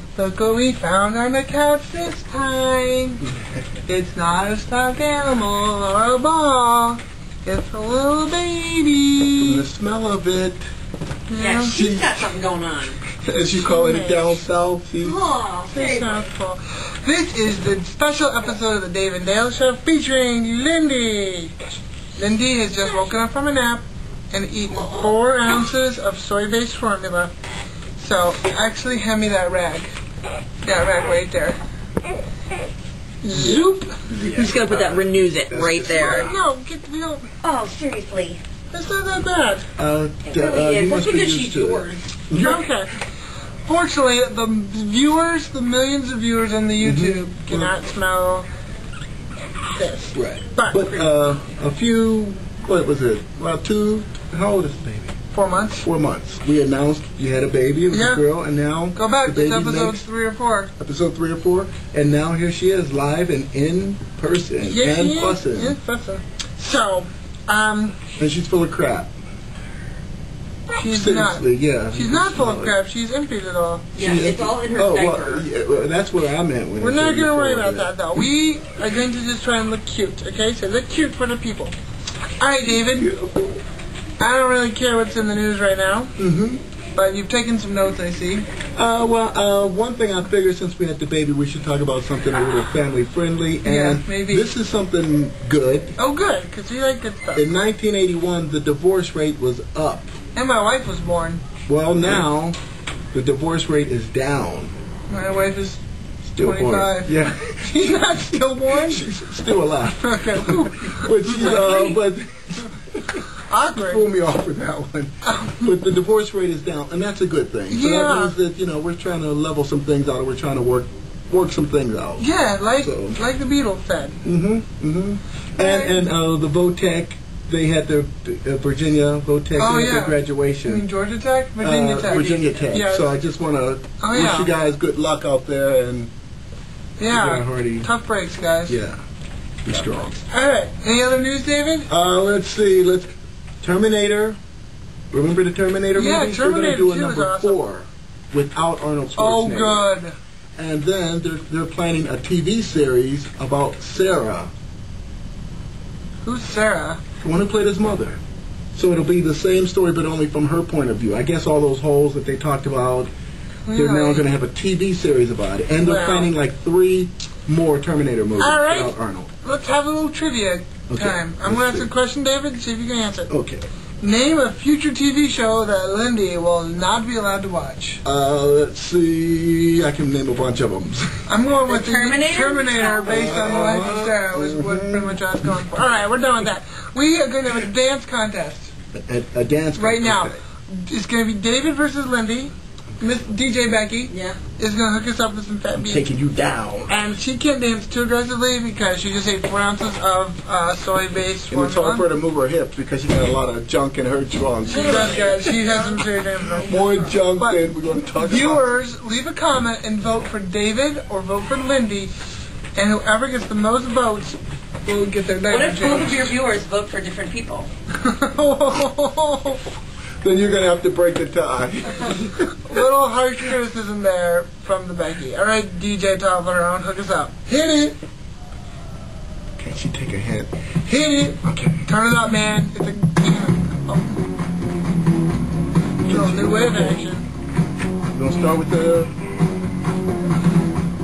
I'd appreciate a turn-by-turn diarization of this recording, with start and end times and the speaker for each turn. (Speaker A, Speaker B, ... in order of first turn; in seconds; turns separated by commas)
Speaker A: 0.1-3.2, Speaker A: 3.9-9.6, Speaker B: 9.4-10.7, Speaker A: 11.3-11.8, Speaker C: 11.4-13.0, Speaker B: 11.7-12.2, Speaker B: 13.2-15.2, Speaker A: 13.5-14.4, Speaker C: 15.0-16.2, Speaker A: 15.7-21.6, Speaker A: 22.2-27.3, Speaker C: 24.8-25.1, Speaker A: 28.0-29.9, Speaker A: 30.6-31.6, Speaker A: 33.2-34.0, Speaker B: 33.3-36.4, Speaker C: 34.2-36.3, Speaker A: 36.0-37.3, Speaker C: 37.4-38.4, Speaker A: 38.7-39.6, Speaker B: 39.8-42.6, Speaker C: 40.3-42.0, Speaker A: 42.3-42.9, Speaker A: 43.7-48.5, Speaker B: 46.8-47.7, Speaker A: 49.7-50.9, Speaker B: 50.1-55.2, Speaker A: 55.3-55.9, Speaker B: 55.8-60.0, Speaker A: 57.9-58.2, Speaker A: 58.9-60.7, Speaker B: 60.8-65.8, Speaker A: 64.6-68.0, Speaker B: 68.2-69.1, Speaker A: 70.7-73.9, Speaker B: 70.8-72.8, Speaker C: 73.9-75.5, Speaker B: 74.0-78.0, Speaker A: 76.8-81.8, Speaker A: 82.4-83.1, Speaker B: 82.8-83.6, Speaker A: 84.2-86.2, Speaker B: 86.2-86.6, Speaker A: 87.0-88.5, Speaker B: 88.8-96.0, Speaker A: 93.6-94.5, Speaker A: 96.0-97.5, Speaker B: 97.3-100.1, Speaker A: 100.3-101.4, Speaker B: 101.7-102.6, Speaker B: 103.1-104.7, Speaker A: 105.1-105.8, Speaker B: 106.2-122.3, Speaker A: 106.4-109.1, Speaker A: 110.0-112.0, Speaker A: 113.5-114.1, Speaker A: 115.2-115.8, Speaker A: 117.7-118.4, Speaker A: 122.2-124.2, Speaker B: 122.8-123.2, Speaker B: 124.2-130.9, Speaker A: 125.6-126.1, Speaker A: 129.6-133.2, Speaker B: 131.6-136.1, Speaker C: 132.1-132.8, Speaker A: 134.0-134.5, Speaker A: 137.0-138.8, Speaker B: 137.1-137.9, Speaker B: 138.7-139.0, Speaker B: 139.7-140.2, Speaker A: 140.3-141.9, Speaker B: 141.9-144.4, Speaker B: 145.1-149.9, Speaker A: 145.9-147.6, Speaker A: 149.2-150.2, Speaker B: 150.6-154.5, Speaker A: 156.2-157.0, Speaker B: 157.2-158.2, Speaker B: 158.8-163.1, Speaker A: 163.7-164.3, Speaker B: 163.7-169.3, Speaker A: 165.8-166.3, Speaker A: 168.4-173.3, Speaker B: 170.9-171.9, Speaker B: 173.3-173.7, Speaker A: 174.0-178.0, Speaker B: 178.0-181.2, Speaker A: 181.3-188.7, Speaker C: 181.7-183.8, Speaker B: 183.0-185.6, Speaker B: 188.9-190.4, Speaker A: 189.8-196.1, Speaker C: 194.1-194.4, Speaker B: 195.8-196.9, Speaker A: 196.9-202.1, Speaker B: 201.5-205.8, Speaker C: 204.7-206.0, Speaker A: 204.7-207.6, Speaker C: 206.6-207.1, Speaker B: 206.6-208.7, Speaker A: 208.2-212.1, Speaker A: 212.8-216.3, Speaker C: 215.5-217.7, Speaker A: 217.9-219.7, Speaker B: 220.2-222.6, Speaker A: 222.6-228.0, Speaker B: 229.6-230.5, Speaker A: 230.8-234.2, Speaker B: 231.4-231.8, Speaker B: 236.0-237.0, Speaker A: 236.1-237.3, Speaker B: 238.1-239.1